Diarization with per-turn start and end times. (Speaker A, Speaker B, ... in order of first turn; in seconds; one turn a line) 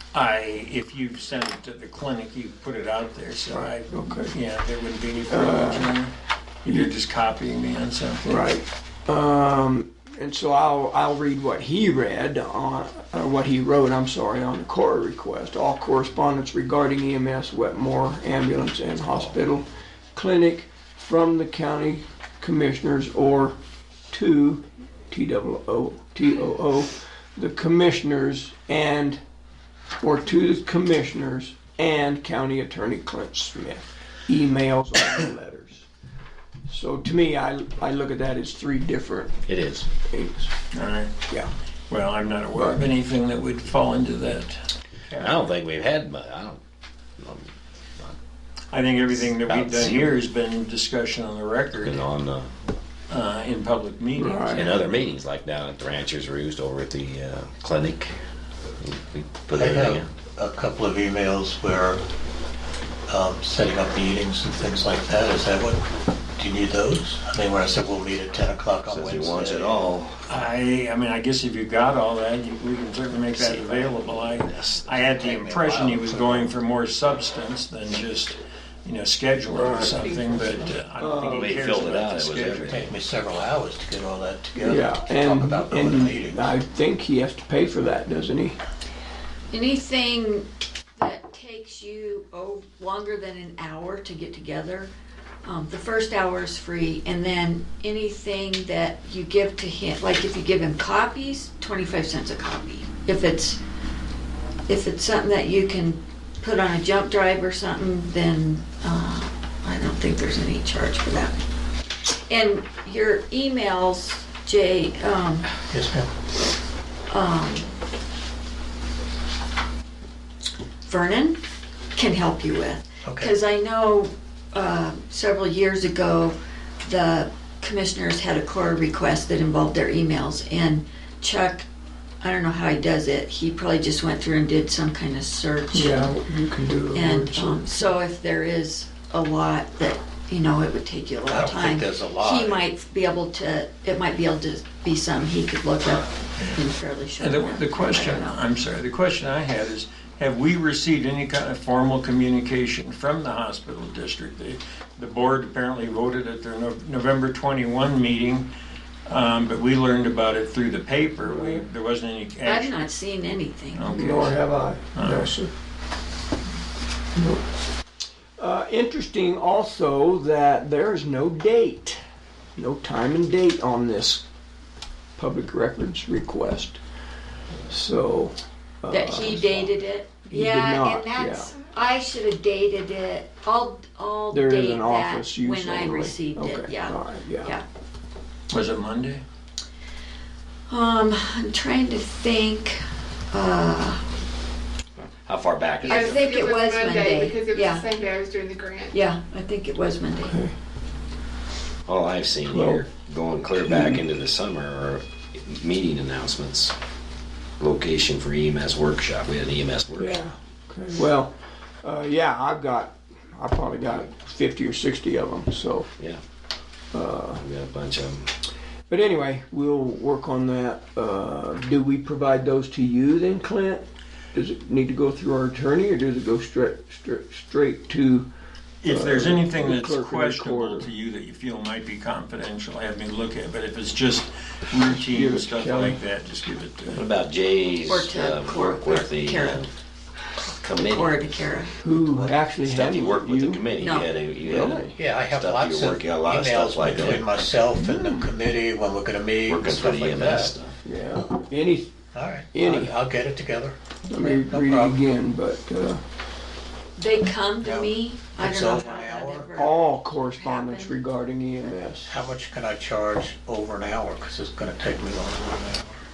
Speaker A: 0.1-6.1
Speaker B: 3.5-4.4
Speaker B: 5.3-6.0
Speaker A: 6.6-8.4
Speaker B: 8.2-23.6
Speaker B: 24.1-29.2
Speaker B: 30.0-35.9
Speaker B: 36.7-40.5
Speaker C: 39.5-39.9
Speaker A: 40.7-41.1
Speaker A: 41.9-45.4
Speaker B: 42.5-42.9
Speaker C: 45.2-46.6
Speaker C: 47.2-48.2
Speaker A: 48.7-52.0
Speaker C: 49.1-50.1
Speaker C: 51.8-52.5
Speaker A: 53.1-54.8
Speaker B: 54.2-54.7
Speaker C: 54.5-58.2
Speaker C: 58.8-60.1
Speaker D: 59.5-62.0
Speaker D: 63.1-69.9
Speaker C: 68.9-70.4
Speaker A: 70.3-82.9
Speaker C: 73.3-75.0
Speaker D: 75.1-76.5
Speaker B: 79.5-81.6
Speaker C: 81.2-82.9
Speaker D: 82.7-86.5
Speaker B: 84.6-88.6
Speaker E: 89.5-94.9
Speaker E: 95.5-103.6
Speaker E: 104.7-111.4
Speaker E: 112.3-115.6
Speaker D: 115.7-116.1
Speaker E: 117.1-117.7
Speaker E: 120.8-121.4
Speaker E: 122.0-131.7
Speaker D: 123.0-123.3
Speaker E: 132.2-136.1
Speaker B: 135.7-137.8
Speaker E: 136.9-148.4
Speaker D: 141.3-142.7
Speaker A: 147.2-158.5
Speaker A: 159.1-162.8
Speaker B: 161.4-161.6
Speaker E: 162.4-164.0
Speaker A: 163.7-164.4
Speaker B: 163.9-165.5
Speaker A: 164.9-165.3
Speaker B: 167.2-167.4
Speaker B: 168.4-172.0
Speaker B: 172.6-174.2
Speaker B: 175.2-176.8
Speaker B: 177.7-179.8
Speaker E: 178.9-187.6
Speaker B: 180.3-181.5
Speaker B: 184.3-187.5
Speaker A: 188.5-189.2
Speaker E: 190.7-194.1
Speaker C: 195.0-196.3
Speaker E: 195.8-198.0
Speaker F: 195.9-199.0
Speaker E: 198.9-200.4
Speaker B: 200.3-200.5
Speaker C: 201.9-206.8
Speaker B: 202.5-202.8
Speaker B: 203.7-204.0
Speaker C: 207.6-210.2
Speaker B: 210.0-215.9
Speaker B: 216.9-217.4
Speaker C: 217.3-218.3
Speaker B: 218.9-228.3
Speaker A: 228.8-237.1
Speaker B: 228.8-230.9
Speaker B: 234.8-236.0
Speaker C: 236.9-239.7
Speaker E: 237.9-239.7
Speaker C: 240.6-241.3
Speaker E: 240.7-241.8
Speaker B: 241.8-243.7
Speaker D: 241.9-242.3
Speaker C: 242.6-247.3
Speaker E: 243.8-244.1
Speaker B: 244.4-244.9
Speaker D: 244.9-250.5
Speaker B: 247.8-248.3
Speaker C: 249.4-250.8
Speaker B: 250.8-251.9
Speaker D: 252.1-255.0
Speaker B: 252.5-253.0
Speaker B: 254.1-256.0
Speaker E: 257.0-260.9
Speaker D: 257.6-259.6
Speaker B: 259.6-262.1
Speaker D: 262.1-266.0